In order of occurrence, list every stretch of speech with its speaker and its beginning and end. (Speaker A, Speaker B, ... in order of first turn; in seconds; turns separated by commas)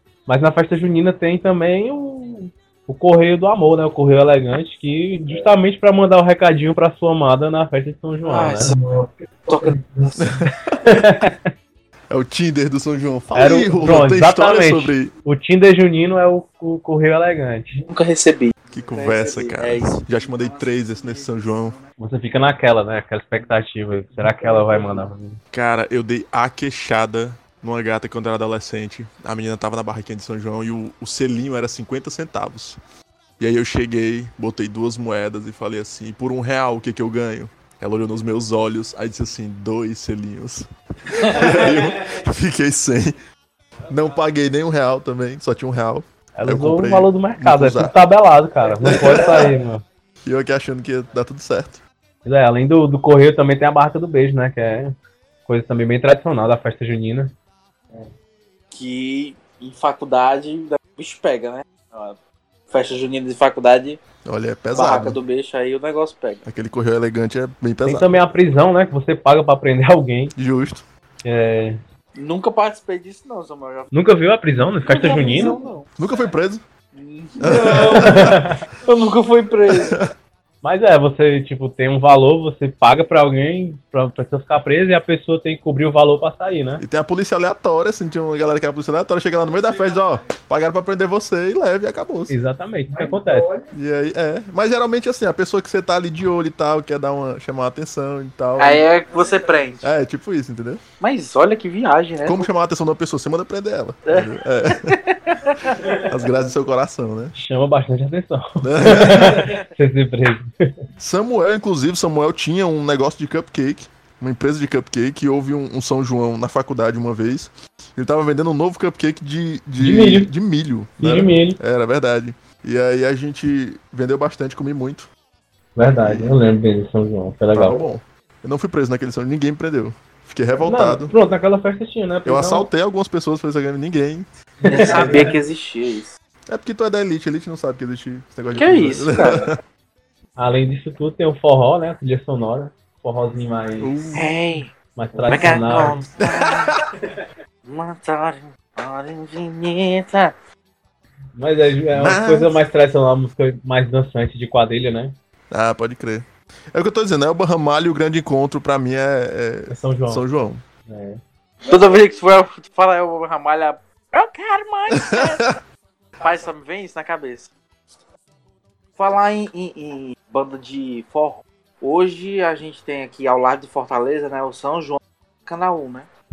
Speaker A: 0.2-8.7, Speaker B: 8.3-10.2, Speaker C: 10.2-10.8, Speaker A: 10.8-11.5, Speaker C: 12.1-15.1, Speaker A: 13.3-17.8, Speaker B: 17.7-21.0, Speaker C: 18.7-21.8, Speaker A: 22.0-25.4, Speaker C: 25.5-32.8, Speaker C: 33.4-43.1, Speaker C: 43.9-47.9, Speaker A: 46.4-49.8, Speaker C: 48.8-49.5, Speaker C: 50.2-51.8, Speaker A: 52.2-54.9, Speaker A: 55.4-57.3, Speaker B: 58.7-62.1, Speaker B: 62.7-64.0, Speaker C: 64.2-65.2, Speaker B: 64.7-66.4, Speaker C: 66.5-68.1, Speaker A: 67.8-70.3, Speaker C: 70.3-70.8, Speaker A: 71.2-71.8, Speaker B: 72.2-73.9, Speaker A: 73.9-75.5, Speaker B: 74.8-75.9, Speaker C: 76.0-76.6, Speaker B: 77.0-80.0, Speaker C: 77.4-78.6, Speaker A: 77.8-78.6, Speaker C: 79.7-80.1, Speaker A: 80.6-86.8, Speaker C: 86.8-92.3, Speaker A: 92.3-93.5, Speaker B: 92.9-93.7, Speaker C: 93.7-98.9, Speaker B: 98.6-99.9, Speaker C: 99.8-100.8, Speaker B: 101.0-102.5, Speaker C: 102.2-105.0, Speaker B: 104.0-106.0, Speaker C: 106.0-107.3, Speaker A: 107.3-110.7, Speaker C: 108.6-109.5, Speaker C: 111.0-125.1, Speaker A: 119.8-120.3, Speaker A: 121.0-121.6, Speaker A: 125.8-127.8, Speaker C: 126.0-126.3, Speaker C: 127.5-131.1, Speaker A: 130.6-132.7, Speaker C: 132.2-134.3, Speaker A: 134.6-135.3, Speaker B: 134.6-136.1, Speaker C: 136.5-139.6, Speaker B: 138.5-139.5, Speaker A: 140.4-143.9, Speaker C: 143.8-144.3, Speaker B: 144.1-144.7, Speaker A: 144.9-146.0, Speaker B: 145.3-146.8, Speaker C: 146.2-146.8, Speaker B: 147.7-150.3, Speaker A: 151.3-155.1, Speaker C: 151.9-152.6, Speaker C: 155.5-160.6, Speaker A: 159.7-160.2, Speaker A: 160.9-161.2, Speaker B: 161.7-165.6, Speaker C: 165.0-165.3, Speaker B: 166.2-167.5, Speaker B: 168.9-176.1